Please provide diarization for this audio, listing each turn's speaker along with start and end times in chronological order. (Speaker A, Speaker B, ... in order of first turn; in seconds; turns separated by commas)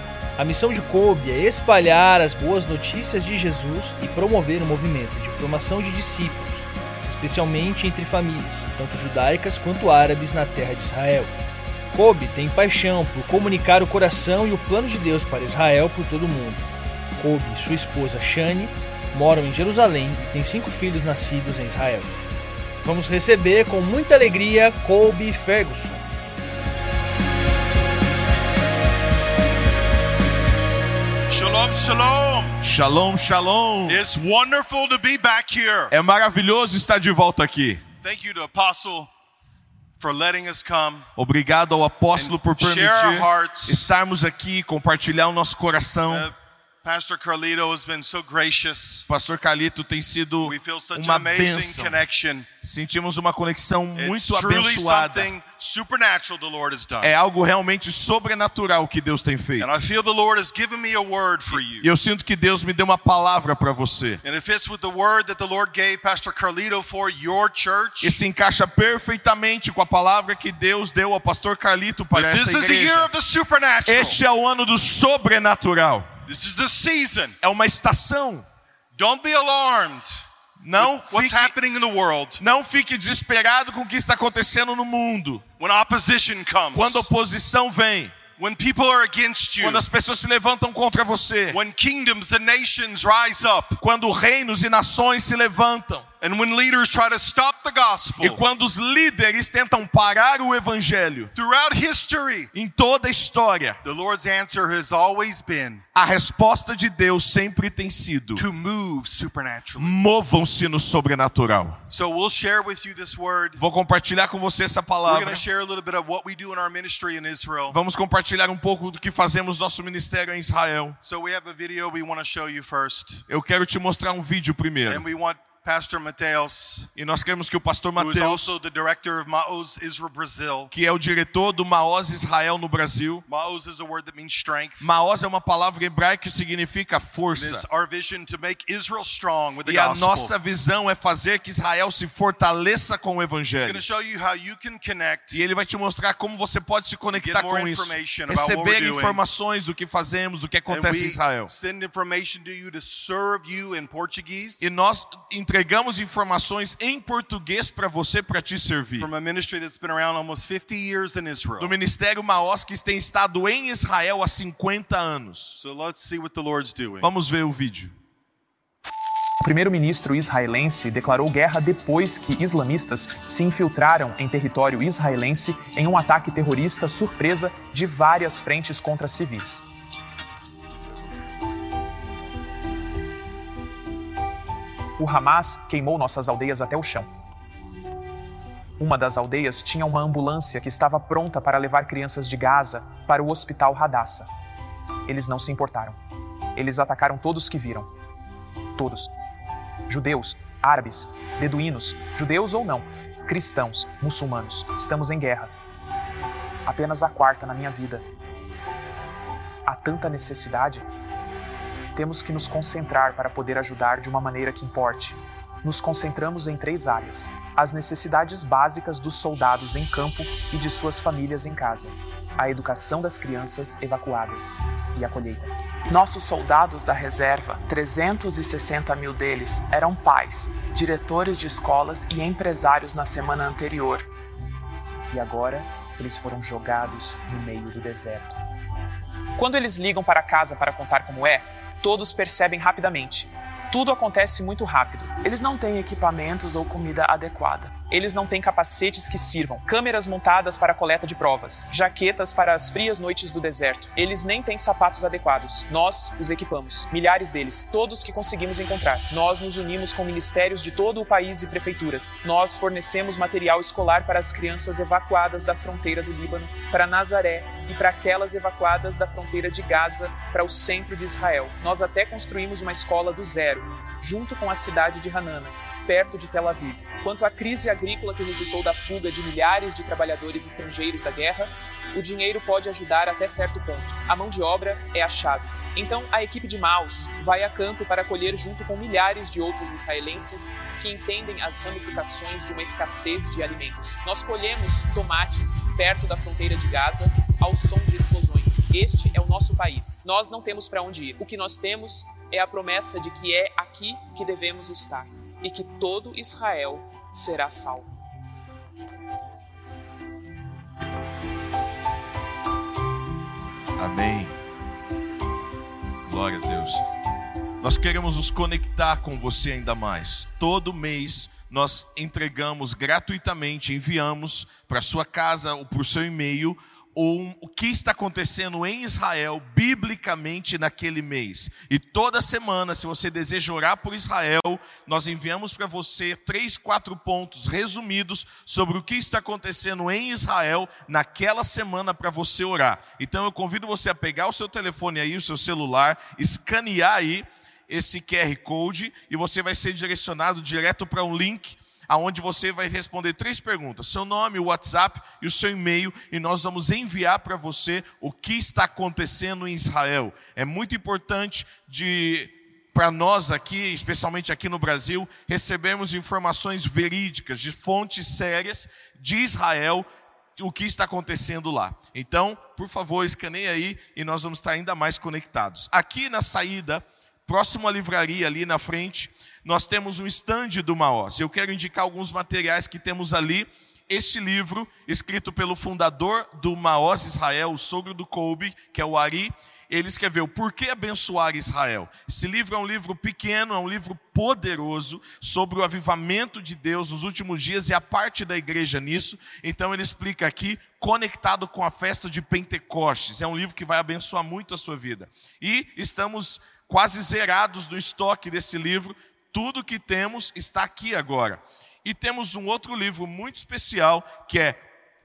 Speaker A: 0.4-11.3, Speaker A: 11.9-16.6, Speaker A: 17.2-22.1, Speaker A: 22.8-26.0, Speaker B: 31.3-32.5, Speaker C: 32.6-34.0, Speaker B: 33.9-35.9, Speaker C: 35.9-37.8, Speaker B: 38.0-39.1, Speaker B: 40.0-41.1, Speaker C: 41.2-46.3, Speaker B: 42.1-43.9, Speaker B: 46.1-49.1, Speaker C: 49.1-52.0, Speaker B: 50.4-52.5, Speaker C: 52.6-55.3, Speaker B: 54.0-57.1, Speaker C: 57.0-59.7, Speaker B: 59.6-61.9, Speaker C: 61.7-64.2, Speaker B: 64.2-68.2, Speaker C: 68.0-73.1, Speaker B: 72.1-74.2, Speaker C: 73.8-76.1, Speaker B: 76.2-77.3, Speaker C: 77.4-78.4, Speaker B: 79.0-80.2, Speaker C: 80.6-81.5, Speaker B: 80.8-82.4, Speaker C: 82.4-85.4, Speaker B: 85.6-87.1, Speaker C: 86.7-88.1, Speaker B: 88.4-89.8, Speaker C: 89.6-91.6, Speaker B: 91.5-93.8, Speaker C: 93.8-96.0, Speaker B: 96.2-98.4, Speaker C: 98.2-101.3, Speaker B: 101.3-102.5, Speaker C: 102.5-103.8, Speaker B: 103.8-105.8, Speaker C: 105.9-108.4, Speaker B: 108.3-110.0, Speaker C: 109.8-111.8, Speaker B: 111.9-113.6, Speaker C: 113.6-115.4, Speaker B: 115.0-117.8, Speaker C: 117.7-121.0, Speaker B: 121.0-123.2, Speaker C: 123.3-125.0, Speaker B: 124.9-126.9, Speaker C: 127.0-128.6, Speaker B: 128.0-130.7, Speaker C: 130.7-133.2, Speaker B: 133.3-134.9, Speaker C: 134.8-137.6, Speaker B: 137.3-140.3, Speaker C: 139.6-143.8, Speaker B: 143.6-145.4, Speaker C: 145.3-151.5, Speaker B: 147.1-149.2, Speaker B: 150.7-154.7, Speaker C: 154.6-159.1, Speaker B: 159.0-161.8, Speaker C: 161.6-165.6, Speaker B: 165.6-167.1, Speaker C: 167.0-167.9, Speaker D: 169.4-179.6, Speaker D: 185.0-187.1, Speaker D: 188.8-194.3, Speaker D: 195.1-196.0, Speaker D: 196.6-197.9, Speaker D: 198.8-199.1, Speaker D: 199.9-205.5, Speaker D: 206.7-208.0, Speaker D: 209.7-210.8, Speaker D: 211.9-234.1, Speaker D: 235.1-238.4, Speaker D: 239.3-307.9, Speaker C: 313.8-314.3, Speaker C: 316.1-316.8, Speaker C: 317.6-369.9, Speaker C: 370.4-414.6